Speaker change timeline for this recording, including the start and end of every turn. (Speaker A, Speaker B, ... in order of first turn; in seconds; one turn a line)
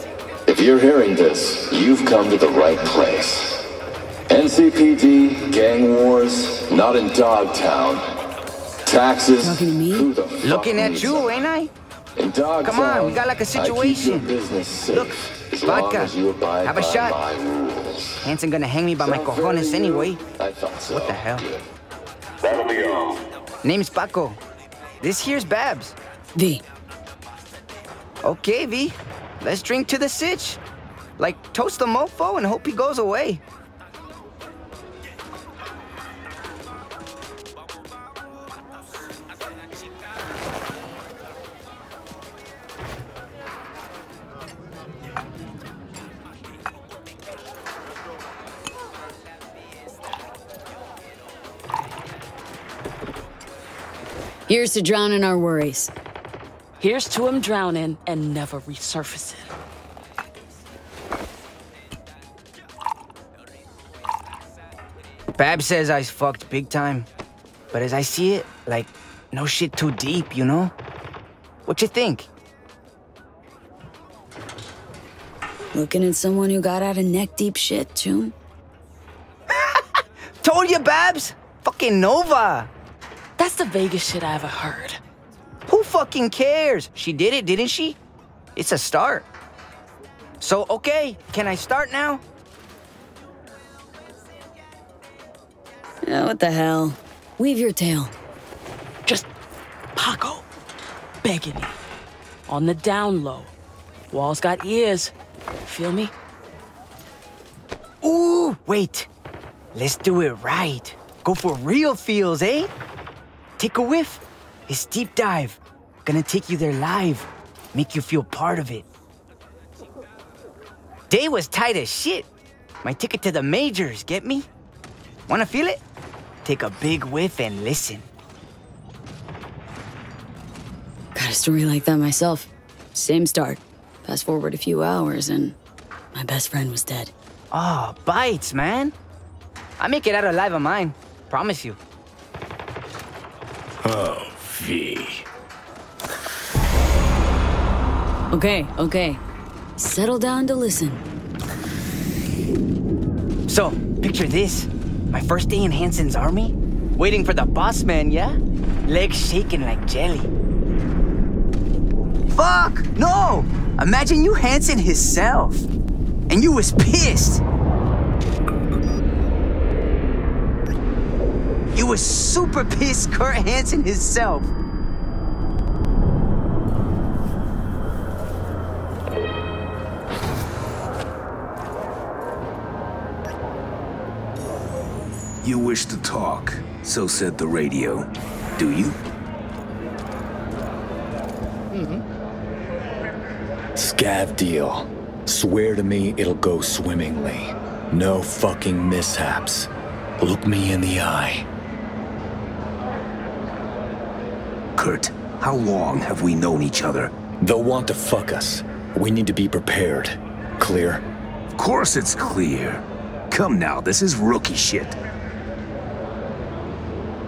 Speaker A: 0.5-3.7
Speaker A: 4.3-8.0
Speaker A: 8.8-11.3
Speaker B: 9.4-10.1
Speaker C: 10.4-11.7
Speaker A: 12.2-18.3
Speaker C: 12.6-14.3
Speaker C: 14.9-17.2
Speaker C: 18.2-20.2
Speaker A: 19.0-21.6
Speaker C: 20.9-21.5
Speaker C: 23.6-24.4
Speaker C: 25.0-25.9
Speaker B: 26.4-26.6
Speaker C: 28.2-30.6
Speaker C: 31.2-33.4
Speaker B: 54.5-55.9
Speaker D: 56.8-59.5
Speaker C: 65.3-67.1
Speaker C: 67.7-70.7
Speaker C: 71.7-72.3
Speaker B: 75.7-78.3
Speaker C: 79.5-79.8
Speaker C: 80.4-82.7
Speaker D: 83.4-85.0
Speaker C: 85.7-88.0
Speaker C: 88.5-89.2
Speaker C: 90.4-92.2
Speaker B: 96.0-98.1
Speaker D: 99.9-100.5
Speaker D: 101.2-101.8
Speaker D: 102.5-103.5
Speaker D: 104.1-105.1
Speaker D: 105.7-106.1
Speaker C: 108.0-109.1
Speaker C: 109.7-112.7
Speaker C: 113.6-118.8
Speaker C: 121.1-122.3
Speaker C: 122.8-124.5
Speaker C: 125.3-125.8
Speaker C: 126.4-128.1
Speaker B: 131.1-135.6
Speaker B: 136.1-137.1
Speaker C: 137.5-138.9
Speaker C: 139.8-141.8
Speaker E: 143.8-145.2
Speaker B: 148.3-149.2
Speaker B: 149.8-151.0
Speaker C: 153.5-160.3
Speaker C: 162.3-165.7
Speaker C: 166.3-167.4
Speaker C: 171.7-174.5
Speaker F: 185.4-189.0
Speaker E: 193.8-201.5
Speaker F: 204.8-207.1
Speaker E: 207.4-211.0
Speaker F: 211.5-215.0